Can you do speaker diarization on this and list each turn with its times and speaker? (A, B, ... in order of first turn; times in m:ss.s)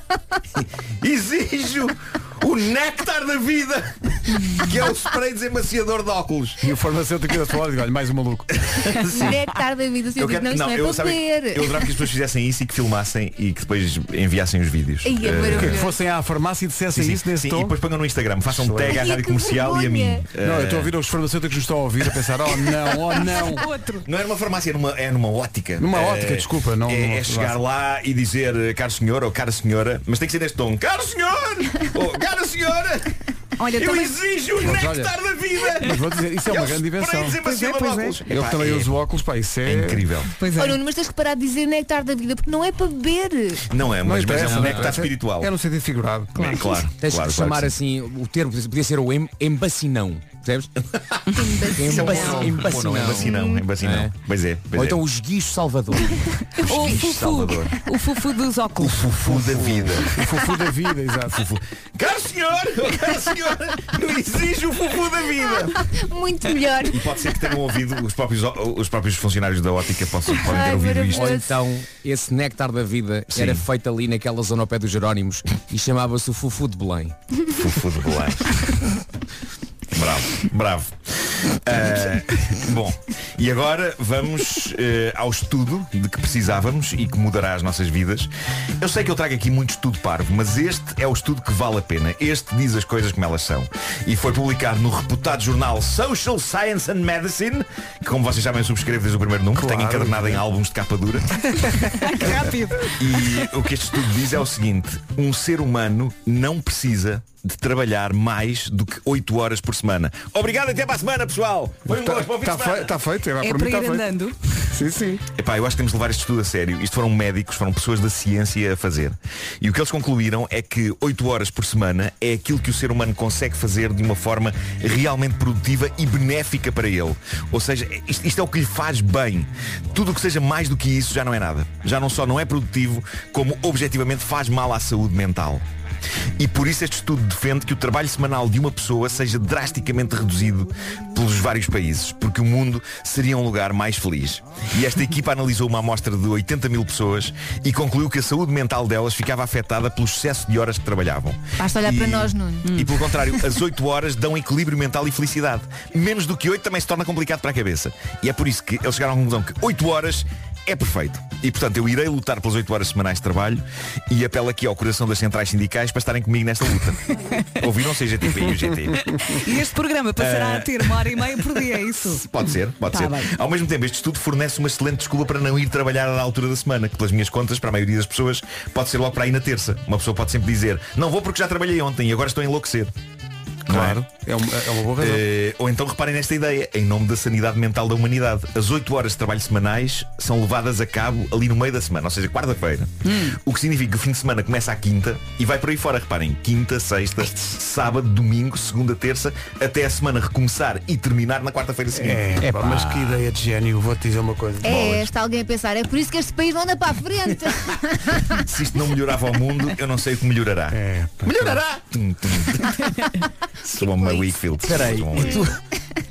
0:00.5-0:06.6 A
0:06.6-0:08.6 B
0:08.5-0:09.4 A
0:09.1-0:12.0 C
0:10.2-0:15.8 A
0:15.0-0:15.9 C
0:15.4-0:17.8 B
0:16.9-0:20.9 A
0:18.5-0:19.0 B
0:18.8-0:20.2 C
0:20.4-0:23.7 B
0:23.3-0:24.1 D
0:24.0-0:38.9 A
0:25.8-0:27.6 B
0:33.6-0:34.2 D
0:34.6-0:35.1 B
0:35.8-0:37.4 B
0:37.4-0:38.2 D
0:38.2-0:40.1 B
0:39.6-0:40.3 A
0:40.4-0:40.8 D
0:40.6-0:43.6 C
0:43.7-0:45.5 A
0:44.0-0:46.6 B
0:44.3-0:45.0 E
0:46.4-0:47.7 A
0:46.9-0:50.7 E
0:51.3-0:52.7 C
0:51.7-0:54.2 E
0:51.9-0:55.0 A
0:53.2-0:53.6 C
0:54.7-0:56.3 E
0:56.6-0:59.1 D
0:56.6-0:57.8 A
0:58.8-1:00.1 A
0:59.3-1:01.5 B
1:01.3-1:05.8 A
1:05.4-1:07.6 C
1:06.9-1:11.4 A
1:10.3-1:11.6 C
1:11.1-1:17.1 E
1:13.3-1:13.6 A
1:17.5-1:18.7 A
1:19.9-1:21.0 A
1:21.5-1:41.4 A
1:39.5-1:40.4 B
1:41.8-1:43.5 D
1:43.0-1:52.9 A
1:51.8-1:54.1 B
1:53.4-1:54.7 D
1:54.7-1:55.2 B
1:55.3-2:15.6 A
2:16.4-2:49.1 A
2:31.6-2:32.8 C
2:32.6-2:32.9 D
2:49.0-2:52.3 D
2:50.2-2:51.2 A
2:52.0-3:02.9 A
2:52.8-2:53.3 D
3:03.7-3:04.0 A
3:03.7-3:05.3 B
3:05.0-3:23.2 A
3:13.0-3:13.4 D
3:21.9-3:24.9 B
3:24.6-3:28.4 C
3:24.7-3:25.0 A
3:28.4-3:32.8 A
3:30.7-3:31.6 B
3:33.6-3:35.5 A
3:33.7-3:35.5 C
3:34.6-3:35.6 E